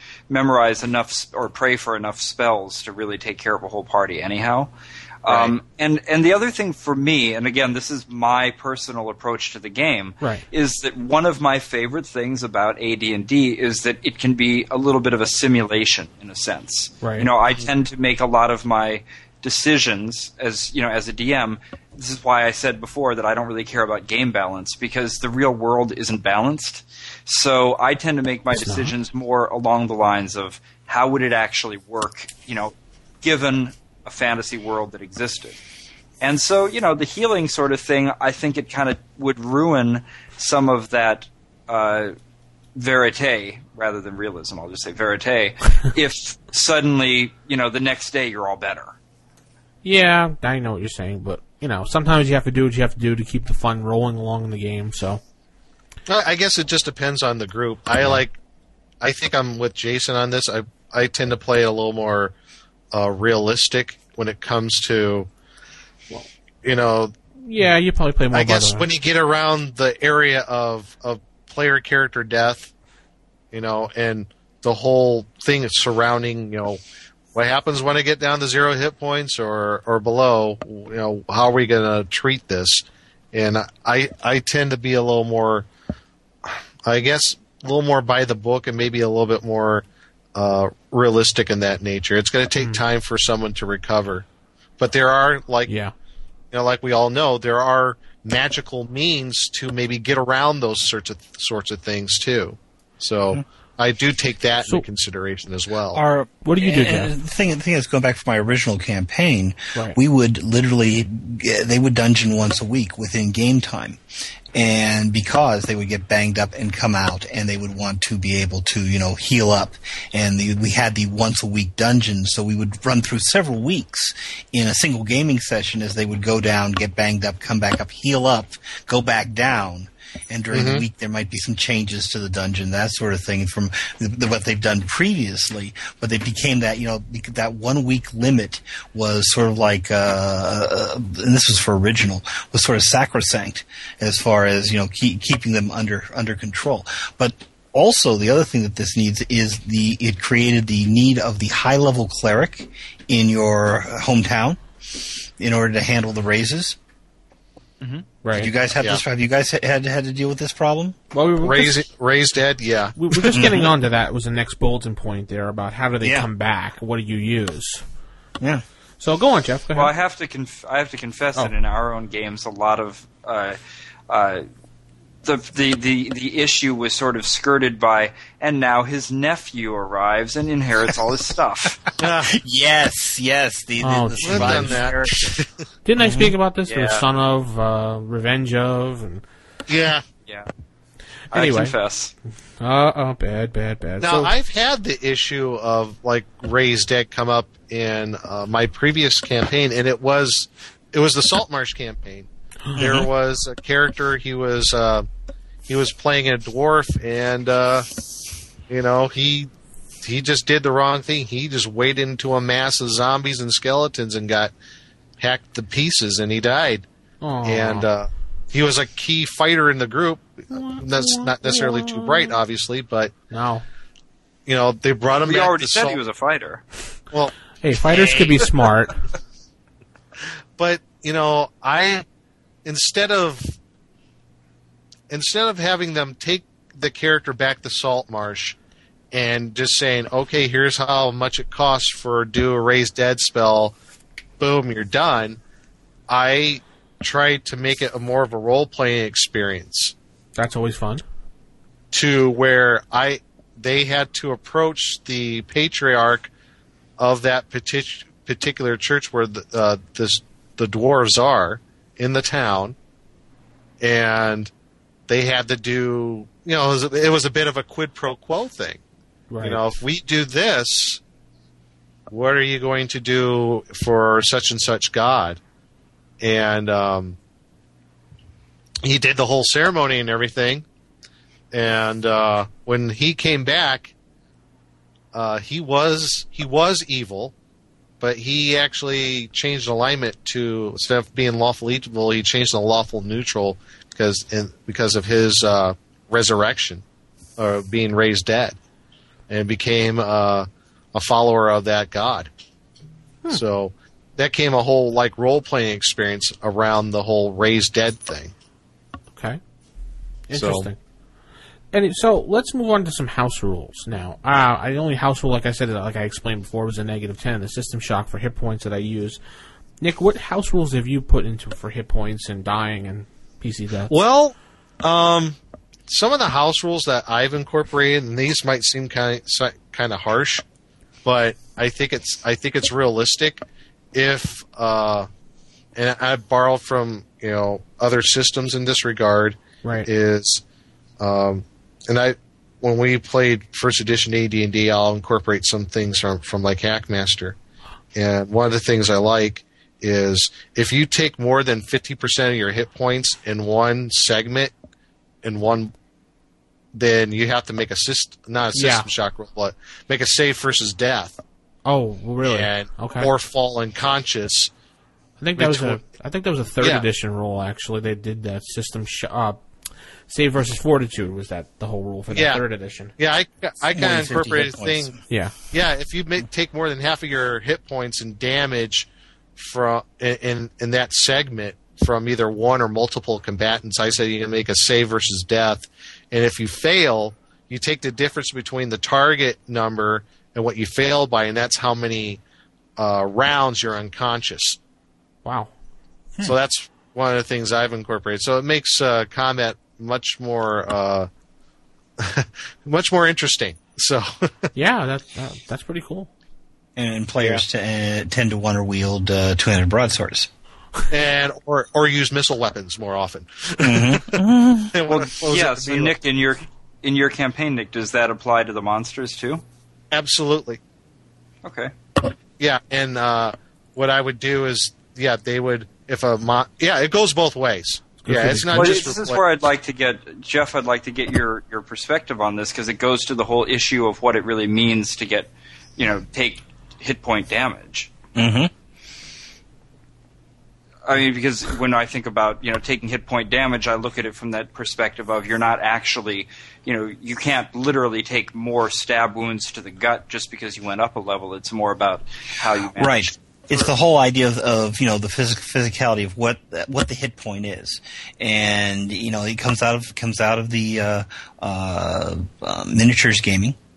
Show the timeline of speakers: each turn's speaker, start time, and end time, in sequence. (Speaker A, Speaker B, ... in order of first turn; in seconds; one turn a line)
Speaker A: 0.3-4.7
Speaker A: 5.2-35.6
Speaker B: 17.0-17.3
Speaker B: 28.5-28.9
Speaker A: 36.2-42.1
Speaker A: 42.7-49.0
Speaker B: 49.8-55.2
Speaker C: 56.1-58.4
Speaker C: 59.0-62.3
Speaker C: 62.9-65.3
Speaker C: 66.6-67.1
Speaker B: 67.4-68.9
Speaker C: 68.3-72.7
Speaker C: 73.5-76.8
Speaker C: 77.3-85.7
Speaker C: 86.5-89.8
Speaker C: 90.3-94.3
Speaker C: 94.8-95.7
Speaker B: 95.7-95.9
Speaker C: 96.5-106.0
Speaker D: 105.9-114.0
Speaker B: 106.4-107.1
Speaker D: 114.5-154.6
Speaker C: 130.5-130.8
Speaker D: 155.4-156.8
Speaker B: 158.2-158.5
Speaker D: 158.3-161.0
Speaker B: 161.1-161.8
Speaker C: 161.4-163.3
Speaker B: 162.9-167.8
Speaker D: 163.3-163.7
Speaker D: 166.0-166.3
Speaker B: 169.0-169.9
Speaker A: 169.7-173.6
Speaker A: 174.1-174.4
Speaker A: 175.2-181.8
Speaker C: 182.0-182.3
Speaker D: 182.3-185.4
Speaker B: 183.8-184.8
Speaker C: 184.2-185.5
Speaker B: 185.8-189.2
Speaker D: 186.0-186.3
Speaker A: 186.7-187.0
Speaker C: 189.7-190.0
Speaker A: 191.3-192.1
Speaker B: 191.3-191.7
Speaker B: 192.6-194.3
Speaker C: 194.0-205.1
Speaker D: 202.8-203.1
Speaker C: 205.7-207.9
Speaker C: 208.7-209.5
Speaker C: 210.0-214.5
Speaker C: 215.2-216.9
Speaker B: 217.2-217.9
Speaker C: 217.4-223.1
Speaker B: 220.5-222.4
Speaker B: 223.3-223.6
Speaker C: 224.4-226.0
Speaker A: 225.2-226.6
Speaker C: 227.1-228.7
Speaker B: 227.6-229.0
Speaker C: 230.6-232.1
Speaker C: 232.6-233.6
Speaker C: 235.1-238.6
Speaker C: 239.1-243.8
Speaker C: 244.4-245.4
Speaker C: 246.1-249.9
Speaker B: 250.4-251.0
Speaker C: 251.9-256.3
Speaker C: 257.0-262.8
Speaker C: 263.8-264.5
Speaker C: 265.1-268.8
Speaker B: 269.3-269.6
Speaker C: 269.4-271.0
Speaker C: 272.1-275.4
Speaker C: 276.2-277.2
Speaker C: 278.8-280.6
Speaker C: 281.5-283.9
Speaker C: 285.1-287.3
Speaker C: 288.0-296.8
Speaker C: 297.4-298.6
Speaker C: 299.3-302.3
Speaker C: 303.3-308.3
Speaker B: 309.1-309.4
Speaker B: 310.3-310.8
Speaker C: 310.3-310.7
Speaker B: 311.7-319.2
Speaker B: 319.8-323.9
Speaker C: 323.9-325.4
Speaker C: 325.9-330.4
Speaker C: 331.1-333.4
Speaker C: 333.9-335.1
Speaker C: 335.8-340.4
Speaker C: 341.0-347.4
Speaker C: 347.9-354.5
Speaker C: 355.2-355.7
Speaker C: 356.7-361.2
Speaker B: 358.6-358.9
Speaker B: 361.6-363.1
Speaker C: 362.2-364.5
Speaker B: 365.2-369.4
Speaker C: 365.4-365.8
Speaker C: 366.6-366.9
Speaker B: 370.1-372.9
Speaker C: 372.1-372.4
Speaker C: 372.9-375.0
Speaker D: 373.7-375.0
Speaker B: 375.1-375.4
Speaker C: 375.5-392.2
Speaker C: 392.8-394.6
Speaker B: 395.2-395.5
Speaker C: 396.2-401.1
Speaker C: 402.0-404.5
Speaker B: 404.6-406.1
Speaker D: 406.8-410.3
Speaker C: 410.9-415.9
Speaker D: 413.6-414.7
Speaker A: 414.9-419.4
Speaker C: 419.9-420.6
Speaker A: 421.4-421.7
Speaker C: 422.4-429.2
Speaker B: 428.0-428.8
Speaker A: 428.5-437.9
Speaker D: 438.1-438.5
Speaker A: 440.9-453.7
Speaker D: 452.8-463.6